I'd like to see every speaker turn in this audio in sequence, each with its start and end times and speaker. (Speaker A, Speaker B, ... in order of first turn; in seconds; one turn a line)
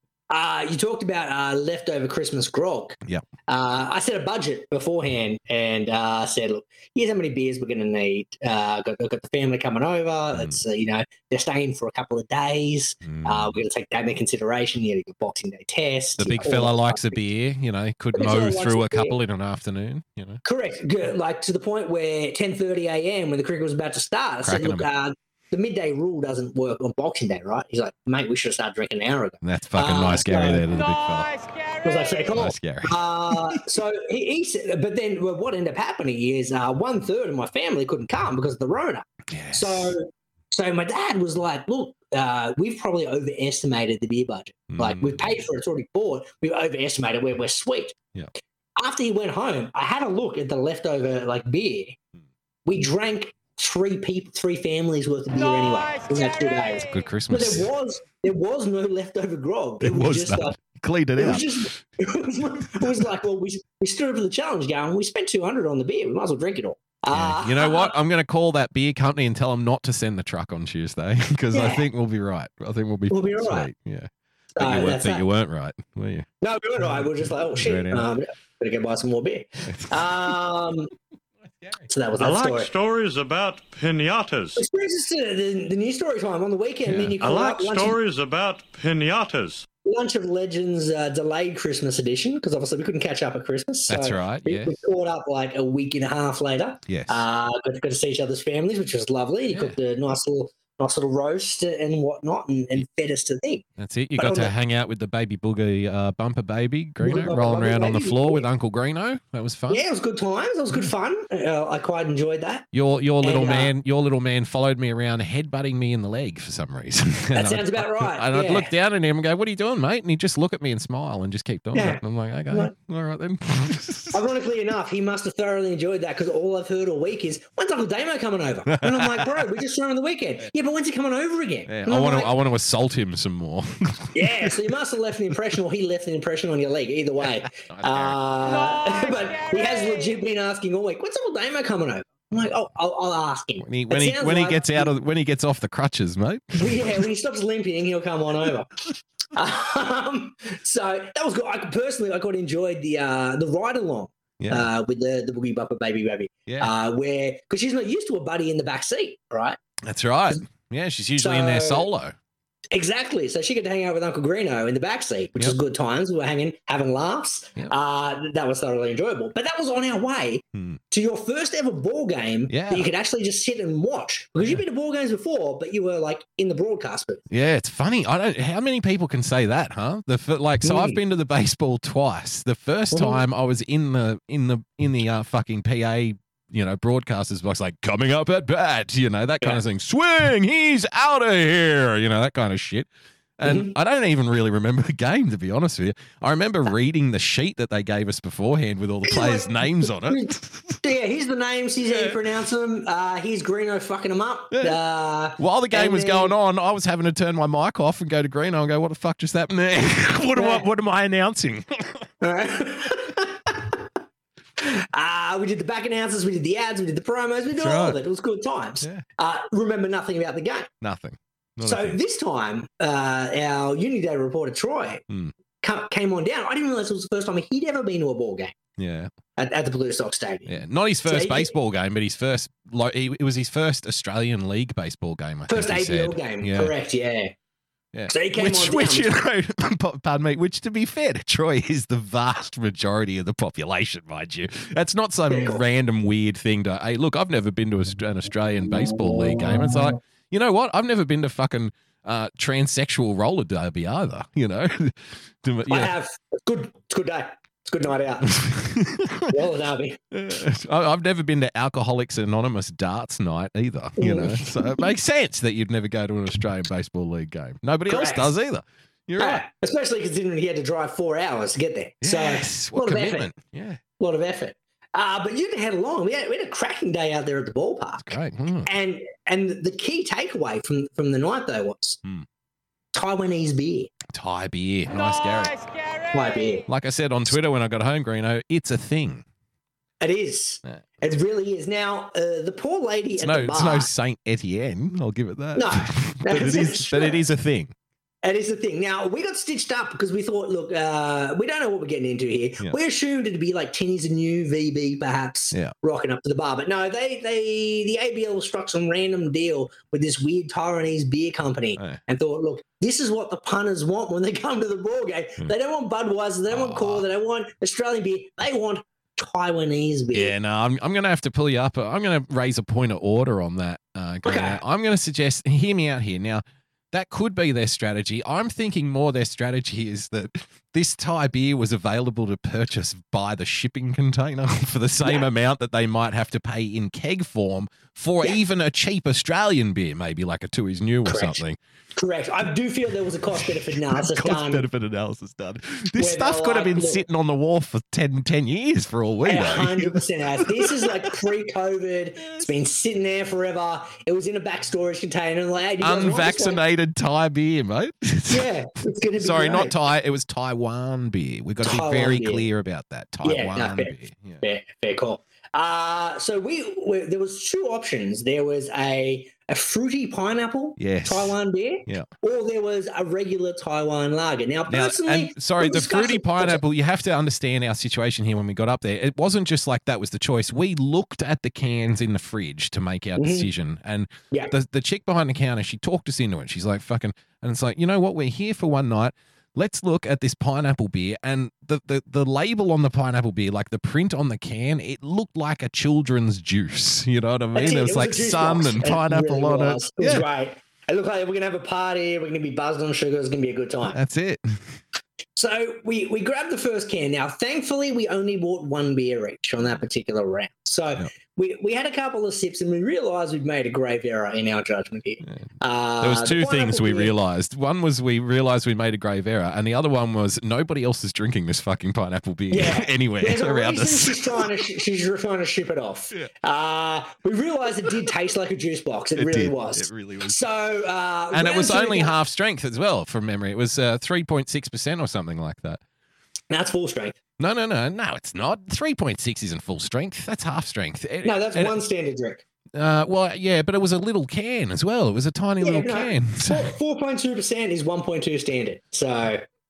Speaker A: 0.3-3.0
Speaker A: 3.5-17.2
Speaker B: 10.3-10.6
Speaker B: 13.0-13.6
Speaker B: 16.2-20.4
Speaker A: 18.1-19.1
Speaker A: 20.4-30.6
Speaker B: 24.4-24.9
Speaker B: 29.4-31.3
Speaker A: 31.8-47.9
Speaker B: 32.3-33.6
Speaker B: 39.3-39.9
Speaker B: 44.7-45.4
Speaker A: 48.8-52.0
Speaker A: 52.6-60.5
Speaker B: 56.9-57.7
Speaker B: 59.8-61.7
Speaker A: 61.2-67.9
Speaker B: 67.1-76.3
Speaker A: 71.5-71.8
Speaker A: 73.1-73.7
Speaker A: 74.5-75.3
Speaker A: 76.4-80.9
Speaker B: 76.8-78.1
Speaker B: 79.7-80.3
Speaker B: 81.6-81.9
Speaker A: 81.9-82.7
Speaker C: 82.2-84.6
Speaker A: 84.6-88.0
Speaker B: 86.8-87.2
Speaker C: 87.2-89.7
Speaker A: 89.8-103.6
Speaker B: 93.9-94.8
Speaker B: 96.9-97.2
Speaker B: 99.5-99.8
Speaker B: 103.8-109.8
Speaker A: 104.2-104.5
Speaker A: 107.0-108.5
Speaker A: 109.7-112.6
Speaker B: 112.7-124.2
Speaker A: 113.2-113.7
Speaker A: 117.3-118.7
Speaker A: 121.7-122.7
Speaker A: 124.1-132.3
Speaker B: 128.7-129.5
Speaker B: 131.7-134.6
Speaker A: 134.1-144.9
Speaker B: 137.2-138.2
Speaker B: 143.6-147.0
Speaker A: 146.5-148.7
Speaker A: 149.3-159.6
Speaker B: 154.4-154.7
Speaker B: 156.5-156.7
Speaker B: 159.8-162.2
Speaker A: 161.2-161.9
Speaker A: 162.7-177.2
Speaker B: 170.5-170.8
Speaker B: 172.5-172.9
Speaker B: 177.3-192.9
Speaker A: 180.6-181.0
Speaker A: 182.9-183.2
Speaker B: 193.4-200.8
Speaker A: 193.4-193.7
Speaker A: 199.0-206.3
Speaker B: 201.9-202.2
Speaker B: 204.5-204.8
Speaker B: 205.4-212.1
Speaker A: 210.3-210.6
Speaker A: 212.2-213.8
Speaker A: 214.6-220.7
Speaker B: 217.5-218.0
Speaker B: 220.8-222.0
Speaker A: 221.6-225.0
Speaker A: 225.6-228.5
Speaker B: 228.8-229.1
Speaker A: 229.3-231.5
Speaker B: 230.4-236.7
Speaker A: 235.5-237.3
Speaker B: 237.9-255.9
Speaker A: 238.1-239.1
Speaker A: 245.3-245.6
Speaker A: 248.7-249.9
Speaker A: 255.7-258.4
Speaker B: 258.3-259.3
Speaker A: 259.3-260.0
Speaker B: 260.1-269.4
Speaker A: 264.0-264.9
Speaker A: 267.9-268.3
Speaker A: 269.2-273.3
Speaker B: 272.0-273.8
Speaker A: 274.0-282.0
Speaker B: 278.0-278.7
Speaker A: 282.9-283.9
Speaker B: 284.1-285.6
Speaker A: 286.1-286.6
Speaker B: 286.7-289.2
Speaker A: 290.0-293.9
Speaker B: 293.2-297.7
Speaker A: 295.6-297.2
Speaker A: 298.2-320.3
Speaker B: 316.5-317.0
Speaker B: 320.1-341.6
Speaker A: 324.2-324.6
Speaker A: 335.0-335.3
Speaker A: 341.0-341.4
Speaker A: 341.9-344.6
Speaker B: 343.4-351.3
Speaker A: 345.9-347.0
Speaker A: 349.2-356.6
Speaker B: 355.8-358.5
Speaker A: 358.3-359.7
Speaker B: 359.2-364.4
Speaker A: 361.6-362.4
Speaker A: 363.2-376.6
Speaker B: 370.8-371.4
Speaker B: 374.7-400.3
Speaker A: 383.2-383.5
Speaker A: 397.5-404.0
Speaker B: 403.9-404.8
Speaker A: 405.4-417.1
Speaker B: 416.0-424.4
Speaker A: 422.5-432.1
Speaker B: 429.1-430.4
Speaker B: 431.3-435.8
Speaker A: 436.5-437.1
Speaker B: 437.4-441.8
Speaker A: 441.2-442.4
Speaker B: 442.7-446.7
Speaker A: 445.6-449.4